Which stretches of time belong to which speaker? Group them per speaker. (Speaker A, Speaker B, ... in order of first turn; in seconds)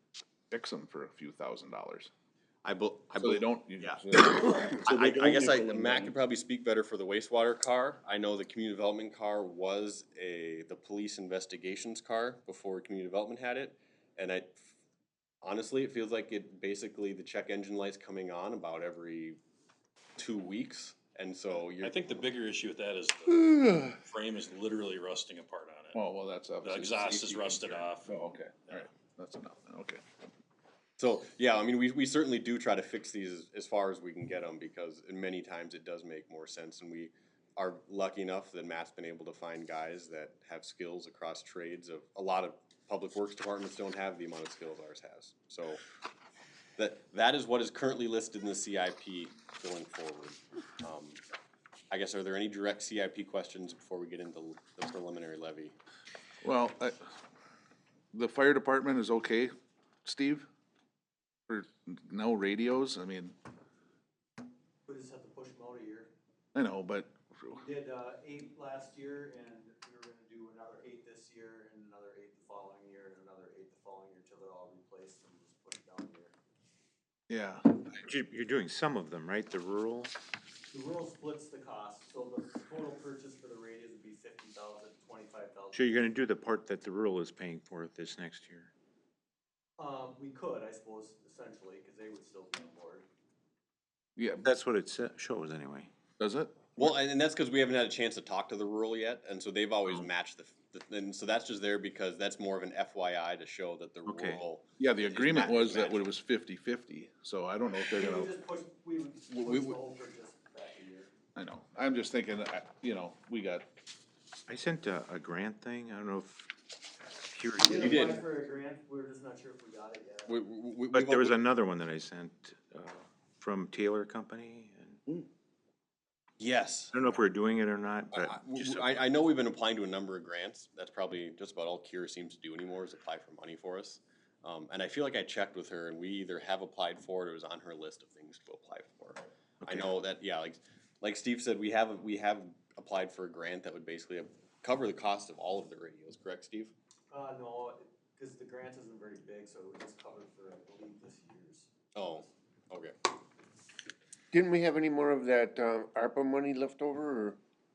Speaker A: 0.5-2.1, 3.2-6.1, 25.9-30.1, 56.4-57.1, 58.1-59.5, 60.0-60.5, 61.5-63.4, 66.5-67.6, 77.3-77.8, 94.2-94.5, 96.2-96.9, 104.8-108.3, 111.4-113.7
Speaker B: 2.6-4.2, 4.8-14.6, 15.4-19.4, 20.2-22.2, 31.0-45.8, 46.8-51.2, 51.9-55.8, 96.8-106.0, 109.3-109.8, 117.8-118.2, 120.3-121.4, 126.4-127.0, 128.1-146.7, 151.9-152.9
Speaker C: 21.8-26.0, 26.6-28.8
Speaker D: 64.9-66.1, 67.5-76.3, 80.7-86.1, 89.8-93.0, 108.0-111.1, 117.6-120.4, 147.1-152.3
Speaker E: 78.0-80.1, 85.7-88.7, 94.4-95.9, 104.1-104.4, 114.5-116.5, 117.3-118.2, 120.9-125.0, 126.9-129.0, 139.6-139.9
Speaker F: 154.3-157.4